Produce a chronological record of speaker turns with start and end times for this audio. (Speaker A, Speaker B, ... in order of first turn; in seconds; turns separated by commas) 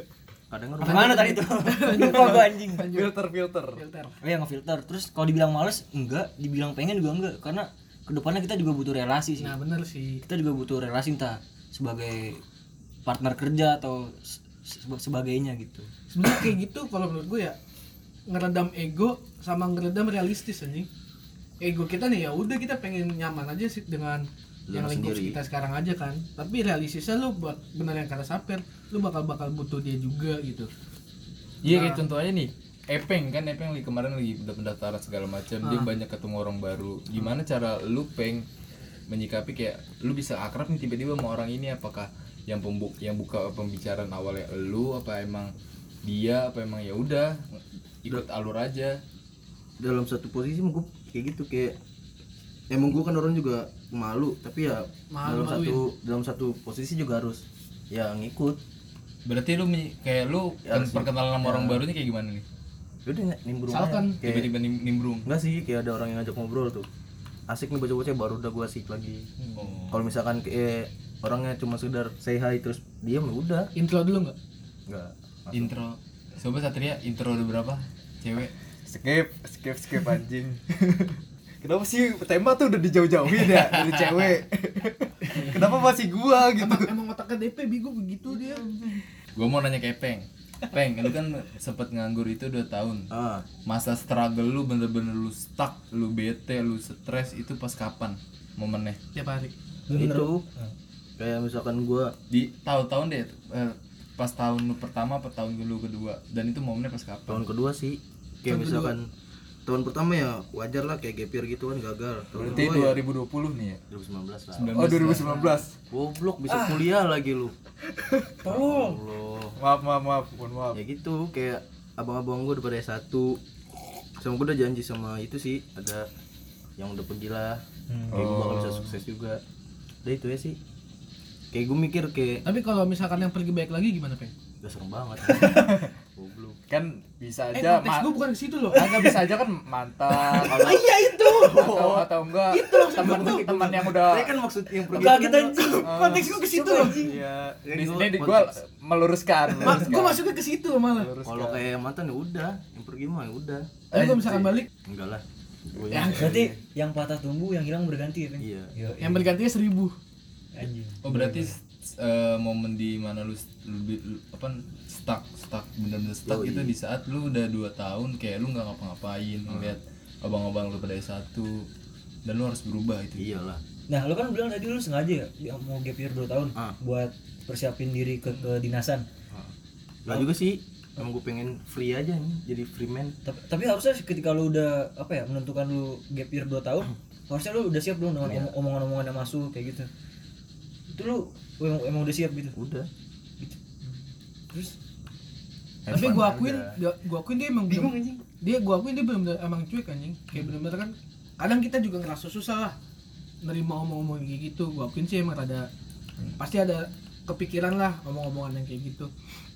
Speaker A: 0.5-1.4, Speaker B: 0.8-2.9, Speaker C: 0.8-3.1, Speaker D: 2.8-3.8, Speaker C: 3.7-4.2, Speaker B: 4.2-9.5, Speaker C: 9.4-10.2, Speaker B: 10.2-12.4, Speaker B: 13.1-15.9, Speaker C: 16.1-17.6, Speaker C: 18.3-20.9, Speaker C: 21.6-30.7, Speaker A: 24.7-25.4, Speaker E: 31.6-38.5, Speaker C: 31.7-32.0, Speaker C: 35.6-35.9, Speaker E: 39.1-45.5, Speaker E: 46.0-49.0, Speaker A: 49.8-51.8, Speaker A: 52.7-58.6, Speaker C: 55.1-55.8, Speaker E: 59.2-62.4, Speaker A: 60.6-61.8, Speaker A: 63.0-64.5, Speaker C: 63.7-64.2, Speaker E: 64.2-65.3, Speaker A: 65.2-66.9, Speaker A: 67.5-69.3, Speaker E: 69.6-69.9, Speaker A: 69.9-73.7, Speaker C: 73.7-74.3, Speaker A: 74.9-75.7, Speaker E: 75.5-78.5, Speaker D: 78.8-86.9, Speaker E: 83.6-84.2, Speaker C: 86.5-88.7, Speaker D: 88.4-89.0, Speaker E: 89.3-93.1, Speaker A: 93.1-93.5, Speaker E: 93.6-99.0, Speaker C: 99.1-99.5, Speaker B: 99.9-100.7, Speaker A: 99.9-100.4, Speaker A: 101.2-102.1, Speaker E: 102.3-107.5, Speaker A: 107.3-109.1, Speaker C: 108.5-108.9, Speaker A: 109.7-113.0, Speaker D: 112.4-113.8, Speaker A: 113.9-115.0, Speaker E: 114.5-115.4, Speaker D: 114.7-115.7, Speaker A: 115.9-117.5, Speaker B: 116.5-116.9, Speaker D: 117.9-118.4, Speaker B: 118.4-119.0, Speaker A: 118.5-119.6, Speaker D: 119.5-120.8, Speaker A: 120.7-123.4, Speaker A: 124.2-126.1, Speaker A: 126.8-129.4, Speaker D: 128.1-128.9, Speaker A: 130.0-130.6, Speaker A: 131.5-132.4, Speaker C: 132.4-134.3, Speaker A: 134.6-136.6, Speaker C: 135.4-135.7, Speaker D: 136.7-138.1, Speaker C: 137.5-139.2, Speaker D: 138.7-144.4, Speaker C: 140.2-143.9, Speaker A: 141.5-141.8, Speaker A: 143.8-145.6, Speaker B: 144.8-147.1, Speaker C: 145.6-147.1, Speaker D: 145.8-146.4, Speaker D: 147.0-150.2, Speaker A: 147.6-148.6, Speaker C: 149.6-151.1, Speaker D: 150.9-151.6, Speaker A: 151.2-156.6, Speaker C: 153.9-154.7, Speaker C: 155.9-156.4, Speaker B: 155.9-159.3, Speaker A: 158.4-158.7, Speaker C: 159.0-159.9, Speaker B: 160.5-161.0, Speaker E: 161.0-171.7, Speaker D: 161.1-161.4, Speaker A: 166.2-166.7, Speaker A: 169.5-169.7, Speaker E: 172.2-173.3, Speaker A: 173.2-173.6, Speaker B: 173.9-179.1, Speaker A: 180.1-183.1, Speaker B: 183.2-189.9, Speaker A: 188.2-188.5, Speaker B: 190.9-192.6, Speaker A: 192.6-192.9, Speaker A: 195.8-196.8, Speaker C: 195.9-202.8, Speaker B: 197.7-198.2, Speaker C: 203.4-205.7, Speaker C: 206.4-209.1